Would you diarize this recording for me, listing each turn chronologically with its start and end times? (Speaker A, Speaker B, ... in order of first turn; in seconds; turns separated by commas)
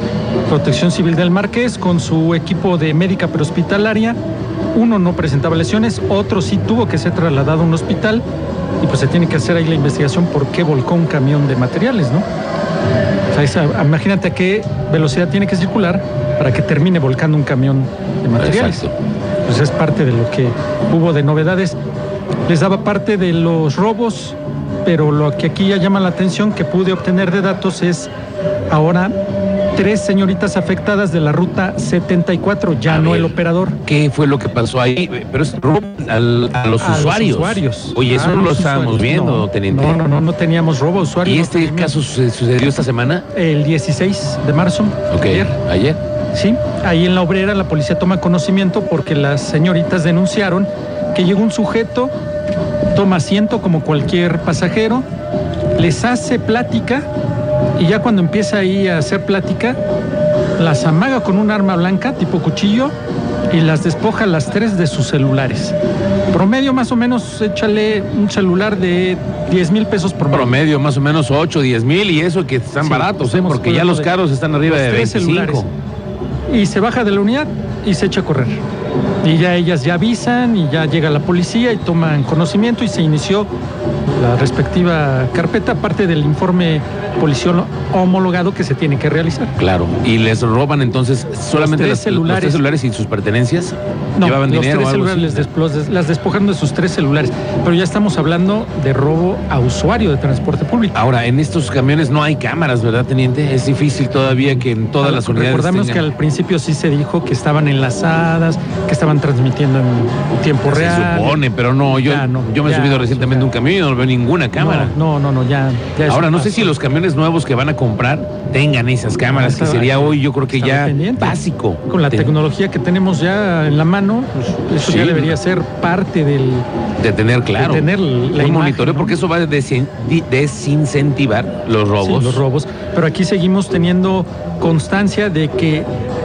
Speaker A: 0.5-4.2, Speaker A: 4.7-8.2, Speaker A: 8.8-12.3, Speaker A: 13.3-18.9, Speaker B: 18.4-18.9, Speaker A: 19.5-21.8, Speaker A: 22.5-28.1, Speaker A: 28.7-29.1, Speaker A: 29.8-33.8, Speaker B: 32.9-40.0, Speaker A: 36.8-42.0, Speaker B: 41.2-43.3, Speaker A: 43.3-45.5, Speaker B: 45.1-46.0, Speaker A: 46.3-52.1, Speaker A: 52.9-55.1, Speaker A: 55.8-57.1, Speaker A: 57.8-59.8, Speaker A: 60.6-62.9, Speaker A: 63.5-65.8, Speaker A: 66.3-70.5, Speaker B: 70.3-75.7, Speaker A: 72.8-74.1, Speaker A: 74.7-75.7, Speaker A: 76.5-78.6, Speaker A: 79.2-83.5, Speaker A: 84.2-89.5, Speaker B: 89.6-95.5, Speaker A: 91.5-92.7, Speaker A: 94.2-101.0, Speaker B: 101.0-106.0, Speaker A: 105.0-113.5, Speaker B: 110.7-115.0, Speaker A: 114.6-116.8, Speaker B: 116.1-122.3, Speaker A: 119.3-126.7, Speaker B: 124.8-125.3, Speaker B: 127.0-132.4, Speaker A: 127.5-129.2, Speaker A: 132.0-135.9